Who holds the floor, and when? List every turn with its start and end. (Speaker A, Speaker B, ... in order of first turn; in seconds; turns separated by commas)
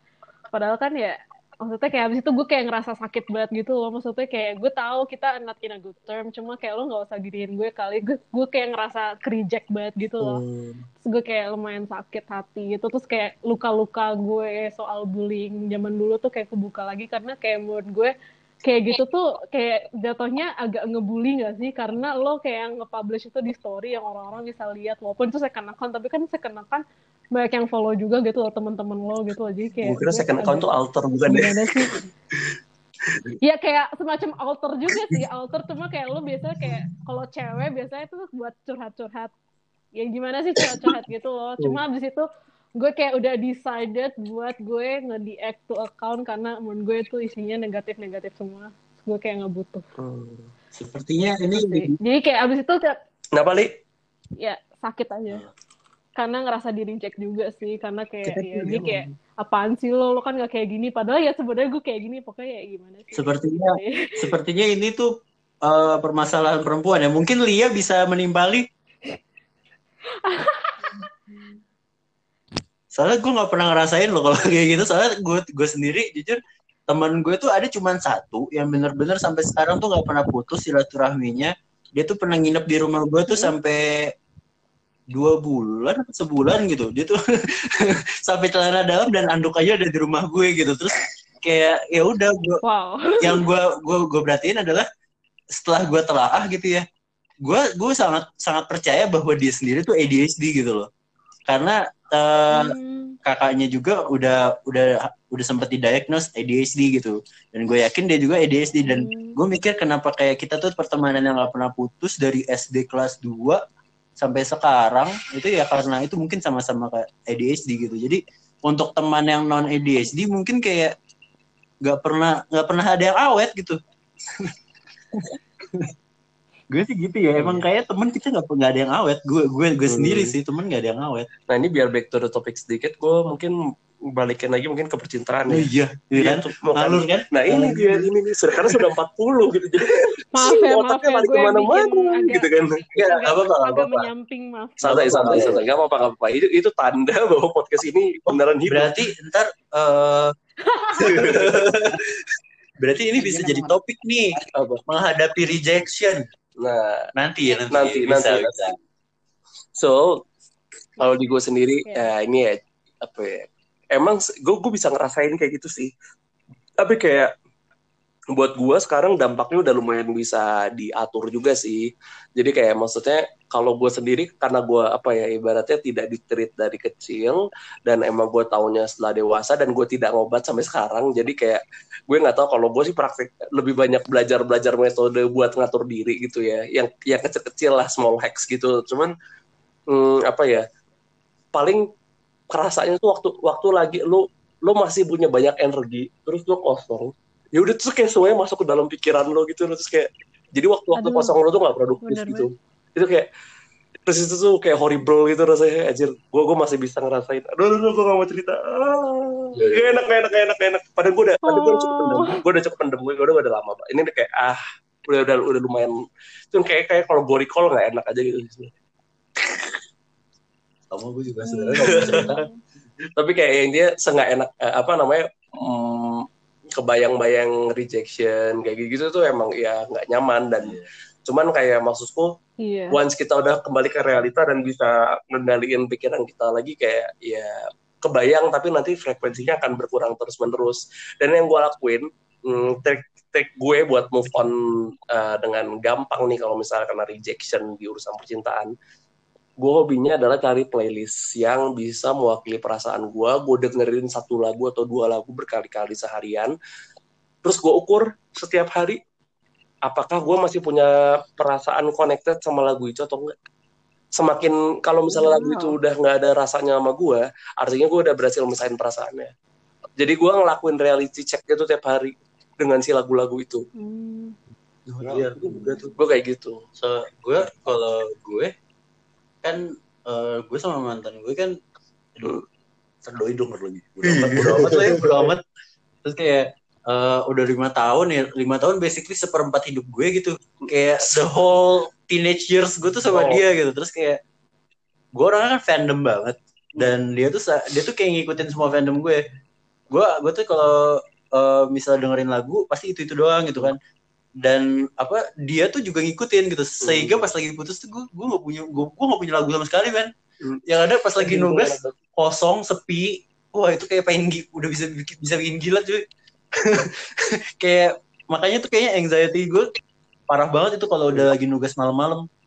Speaker A: 0.5-10.4, Speaker B: 10.2-10.8, Speaker A: 11.0-30.7, Speaker B: 29.8-31.7, Speaker A: 31.3-32.1, Speaker A: 33.4-39.3, Speaker A: 39.9-49.8, Speaker B: 50.0-50.5, Speaker C: 50.7-52.0, Speaker A: 51.5-53.0, Speaker B: 53.4-53.7, Speaker A: 54.4-55.4, Speaker A: 56.1-64.3, Speaker B: 58.3-59.1, Speaker C: 63.1-65.1, Speaker C: 65.6-68.6, Speaker A: 70.2-71.6, Speaker C: 72.9-84.1, Speaker C: 85.1-92.6, Speaker A: 92.6-93.4, Speaker C: 93.2-94.8, Speaker C: 95.5-96.8, Speaker C: 97.4-100.9, Speaker C: 101.5-113.6, Speaker A: 102.5-103.2, Speaker A: 108.8-109.4, Speaker C: 114.2-120.9, Speaker C: 121.8-123.8, Speaker C: 125.2-125.9, Speaker C: 126.7-131.3, Speaker B: 127.4-127.7, Speaker B: 129.8-130.3, Speaker B: 131.5-133.5, Speaker B: 134.1-143.2, Speaker C: 135.5-138.1, Speaker A: 140.3-145.6, Speaker C: 143.2-144.1, Speaker B: 144.8-148.9, Speaker C: 144.8-145.6, Speaker C: 148.3-150.3, Speaker A: 150.7-151.4, Speaker C: 151.0-152.0, Speaker B: 151.1-151.4, Speaker C: 152.8-156.2, Speaker A: 153.2-153.7, Speaker B: 154.5-154.8, Speaker B: 156.6-157.1, Speaker C: 157.2-158.7, Speaker B: 157.7-158.5, Speaker B: 159.8-160.2, Speaker B: 161.0-165.9, Speaker A: 161.8-162.1, Speaker B: 166.8-167.3, Speaker B: 168.3-189.1, Speaker B: 189.9-190.6, Speaker B: 191.5-191.8, Speaker B: 192.5-203.3, Speaker A: 200.9-201.3, Speaker A: 202.0-202.5, Speaker B: 204.1-215.9, Speaker A: 211.4-212.4, Speaker B: 216.5-218.7, Speaker C: 220.9-222.4, Speaker A: 221.4-222.6, Speaker B: 221.8-222.4, Speaker B: 223.2-232.3, Speaker A: 232.6-233.0, Speaker B: 232.9-237.5, Speaker B: 238.0-248.7, Speaker B: 249.6-256.5, Speaker B: 257.4-259.0, Speaker B: 259.9-263.3, Speaker B: 264.1-269.3, Speaker A: 265.1-265.8, Speaker B: 270.0-273.6, Speaker A: 273.7-274.4, Speaker B: 275.0-276.6, Speaker C: 275.0-275.9, Speaker C: 276.8-278.5, Speaker C: 279.4-281.6, Speaker C: 283.0-285.4, Speaker B: 284.1-285.3, Speaker C: 286.0-294.2, Speaker B: 290.6-291.3, Speaker B: 293.1-293.4, Speaker C: 295.1-299.2, Speaker C: 299.9-303.8, Speaker C: 304.4-310.1, Speaker B: 306.8-307.3, Speaker C: 310.7-316.0, Speaker B: 311.2-311.9, Speaker C: 316.6-316.9, Speaker C: 317.6-319.7, Speaker C: 320.3-322.2